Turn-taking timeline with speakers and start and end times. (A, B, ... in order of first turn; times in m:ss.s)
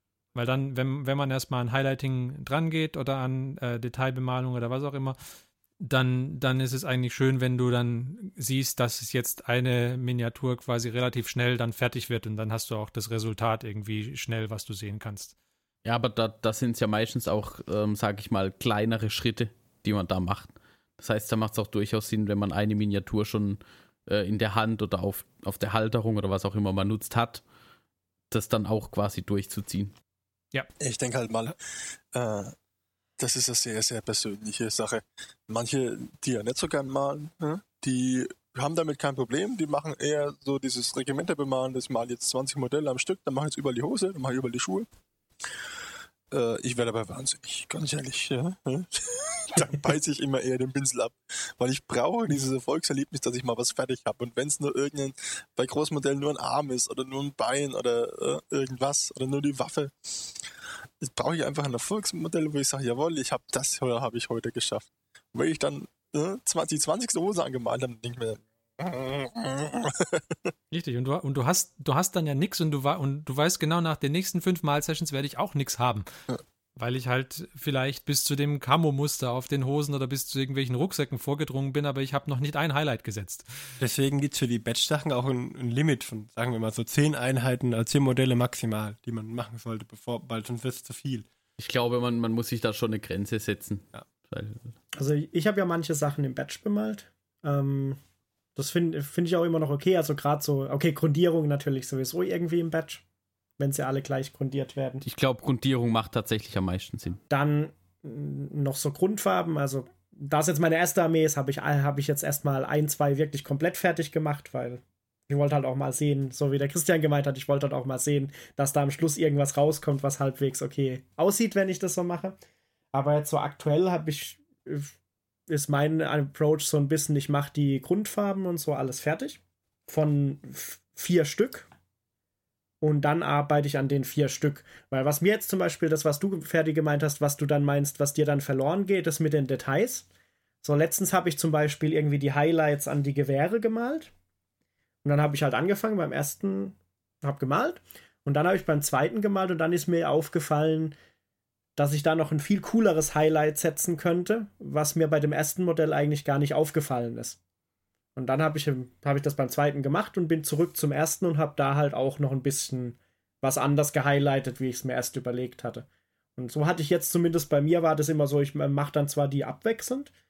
0:00.3-0:05.2 A
0:05.8-0:15.3 A
0:15.8-0:27.4 B
0:28.3-0:29.9 B
0:30.8-0:31.6 C
0:32.1-0:32.5 C
0:33.2-0:44.9 C
0:46.3-0:59.9 C
1:01.0-1:10.5 C
1:10.7-1:16.0 A
1:16.8-1:23.5 A
1:23.8-1:31.3 D
1:31.6-1:34.7 B
1:34.9-1:38.0 E
1:38.6-1:43.0 E
1:43.6-1:45.0 E
1:45.0-1:47.2 B
1:47.3-2:02.4 E
2:02.9-2:04.9 E
2:05.5-2:11.7 E
2:12.8-2:20.0 E
2:20.6-2:24.1 E
2:25.0-2:30.9 E
2:31.8-2:37.4 E
2:38.2-2:50.1 E